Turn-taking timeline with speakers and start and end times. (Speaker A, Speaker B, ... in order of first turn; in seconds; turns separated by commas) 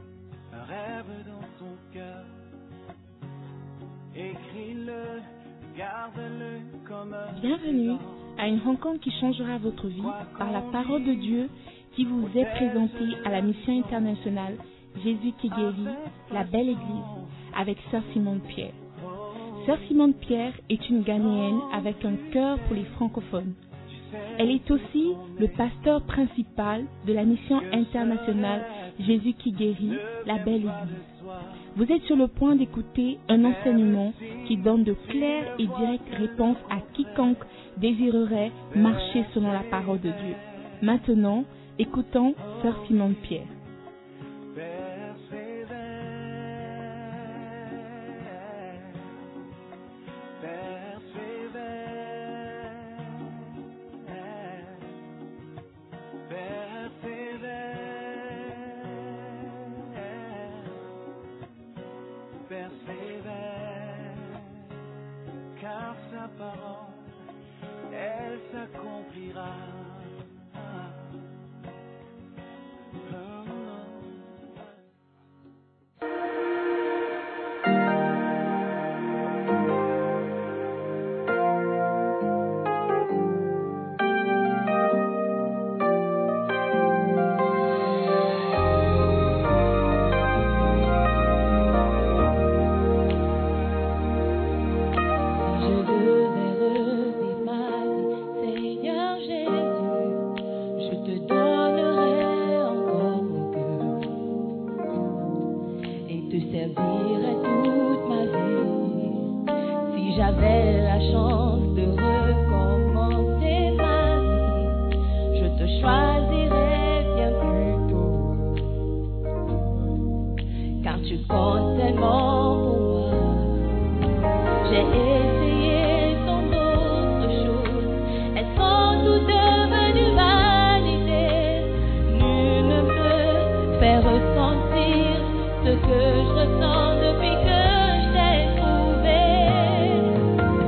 Speaker A: 0.5-2.3, Speaker A: 4.1-8.3, Speaker B: 7.3-18.8, Speaker A: 10.0-11.5, Speaker A: 12.2-14.3, Speaker A: 15.5-17.4, Speaker A: 18.9-20.1, Speaker B: 19.6-23.6, Speaker A: 20.9-23.2, Speaker A: 23.9-25.7, Speaker B: 24.4-31.0, Speaker A: 27.5-31.6, Speaker B: 31.7-43.5, Speaker A: 33.3-37.4, Speaker A: 38.6-41.0, Speaker A: 42.4-43.3, Speaker A: 44.5-49.1, Speaker A: 50.4-54.9, Speaker A: 56.3-60.9, Speaker A: 62.5-64.6, Speaker A: 65.5-67.1, Speaker A: 67.9-71.2, Speaker A: 73.0-74.7, Speaker C: 95.4-104.2, Speaker C: 106.0-109.3, Speaker C: 109.9-118.6, Speaker C: 120.8-123.8, Speaker C: 124.6-140.2